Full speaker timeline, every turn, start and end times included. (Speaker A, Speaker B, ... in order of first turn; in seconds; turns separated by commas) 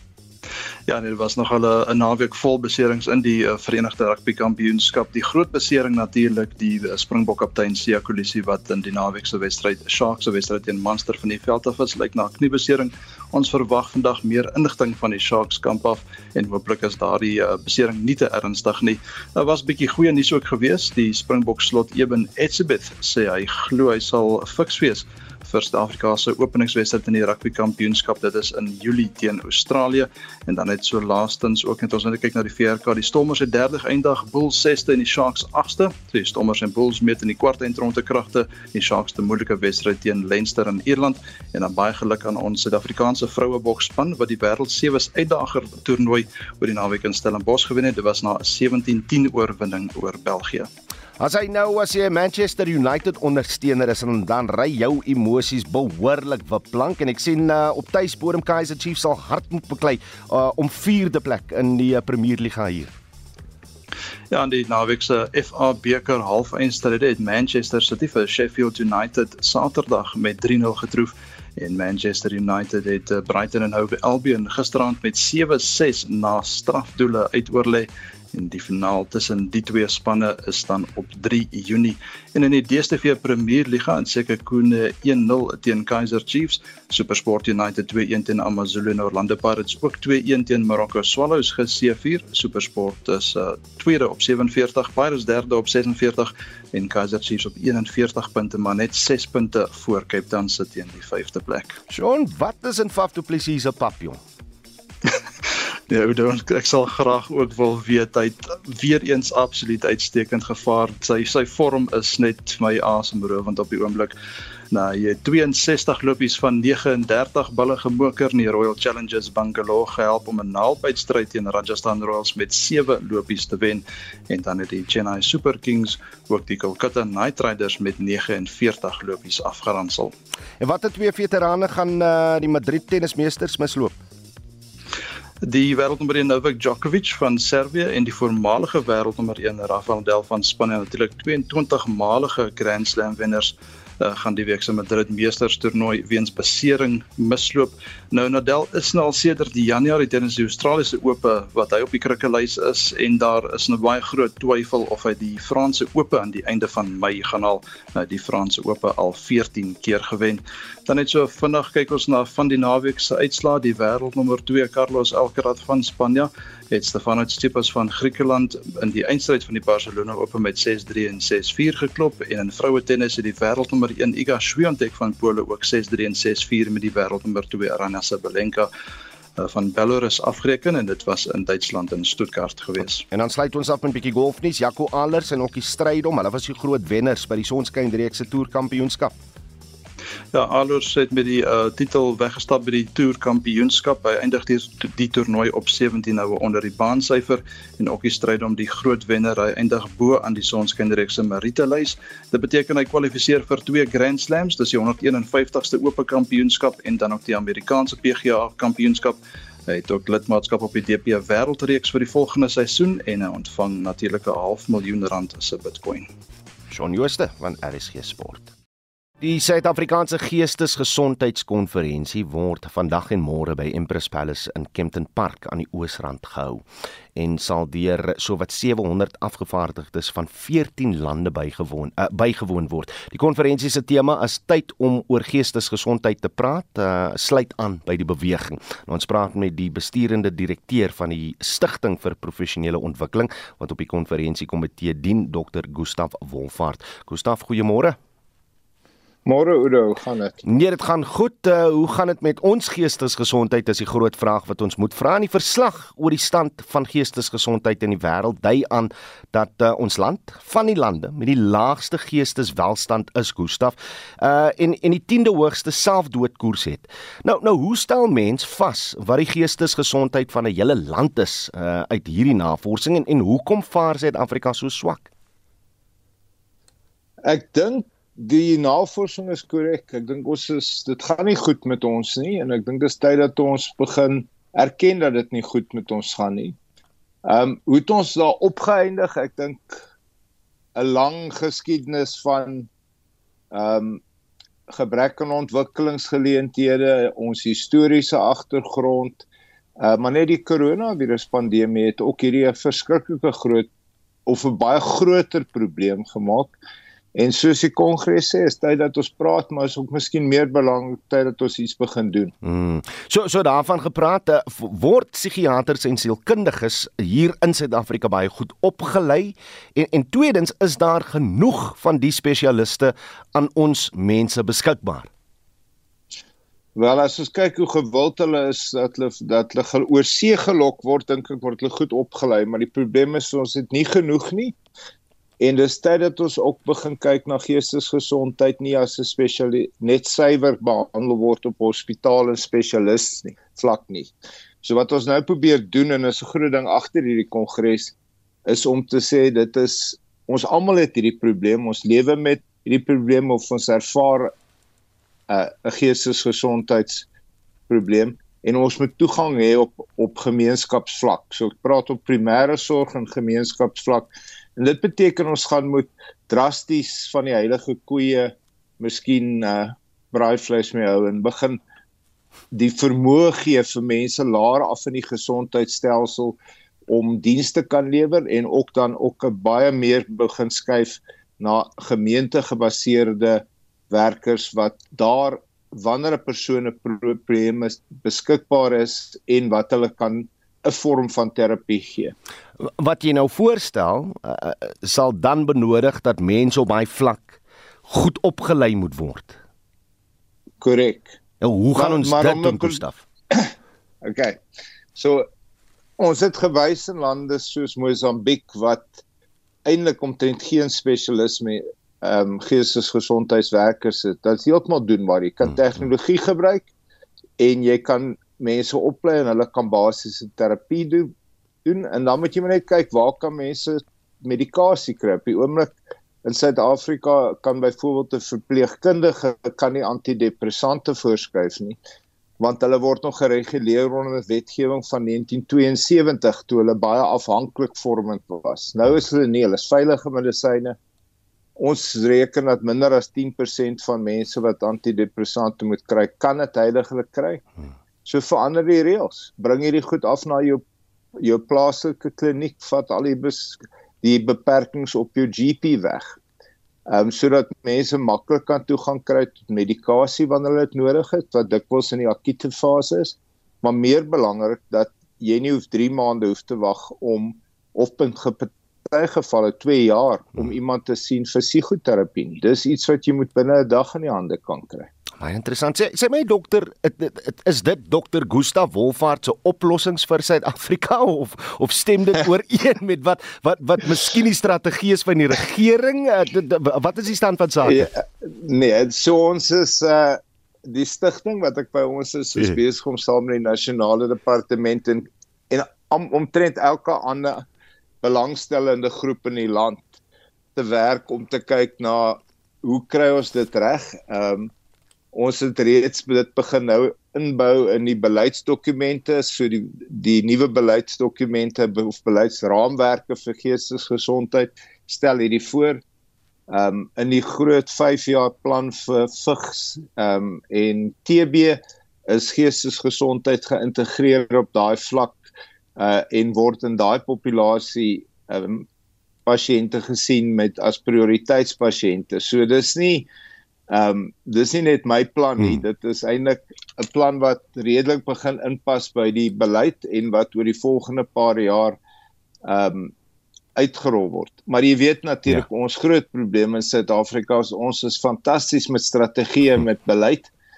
Speaker A: 0.9-50.7, Speaker B: 51.2-63.0, Speaker A: 64.3-101.8, Speaker B: 101.9-104.2, Speaker A: 105.9-114.2, Speaker A: 114.7-130.1, Speaker B: 130.6-134.0, Speaker A: 135.4-178.7, Speaker A: 179.4-183.0, Speaker B: 183.1-189.2, Speaker A: 190.3-216.1, Speaker B: 216.7-218.5, Speaker B: 219.2-248.0, Speaker C: 249.3-250.4, Speaker B: 250.4-275.1, Speaker C: 277.2-286.6, Speaker C: 287.3-289.8, Speaker C: 290.8-292.7, Speaker C: 293.5-294.0, Speaker C: 294.7-299.2, Speaker C: 299.8-303.7, Speaker C: 304.3-306.6, Speaker C: 307.1-312.3, Speaker B: 312.4-325.1, Speaker C: 326.8-334.6, Speaker C: 335.4-347.9, Speaker C: 348.5-354.3, Speaker C: 355.3-357.1, Speaker C: 357.7-371.6, Speaker C: 372.5-392.1, Speaker B: 392.6-399.4, Speaker C: 400.6-401.2, Speaker B: 401.4-403.1, Speaker C: 401.8-402.8, Speaker C: 404.0-404.4, Speaker C: 405.0-405.3, Speaker C: 406.0-409.0, Speaker C: 409.7-416.7, Speaker C: 417.4-421.1, Speaker C: 421.6-431.8, Speaker C: 432.4-440.8, Speaker C: 441.6-447.4, Speaker C: 448.1-450.6, Speaker C: 451.2-456.2, Speaker C: 456.9-474.9, Speaker B: 475.2-487.9, Speaker C: 487.6-497.4, Speaker C: 498.0-499.9, Speaker C: 500.6-504.5, Speaker C: 505.1-515.8, Speaker C: 516.5-528.6, Speaker C: 529.3-533.1, Speaker C: 533.7-541.8, Speaker C: 542.5-542.9, Speaker C: 543.6-550.3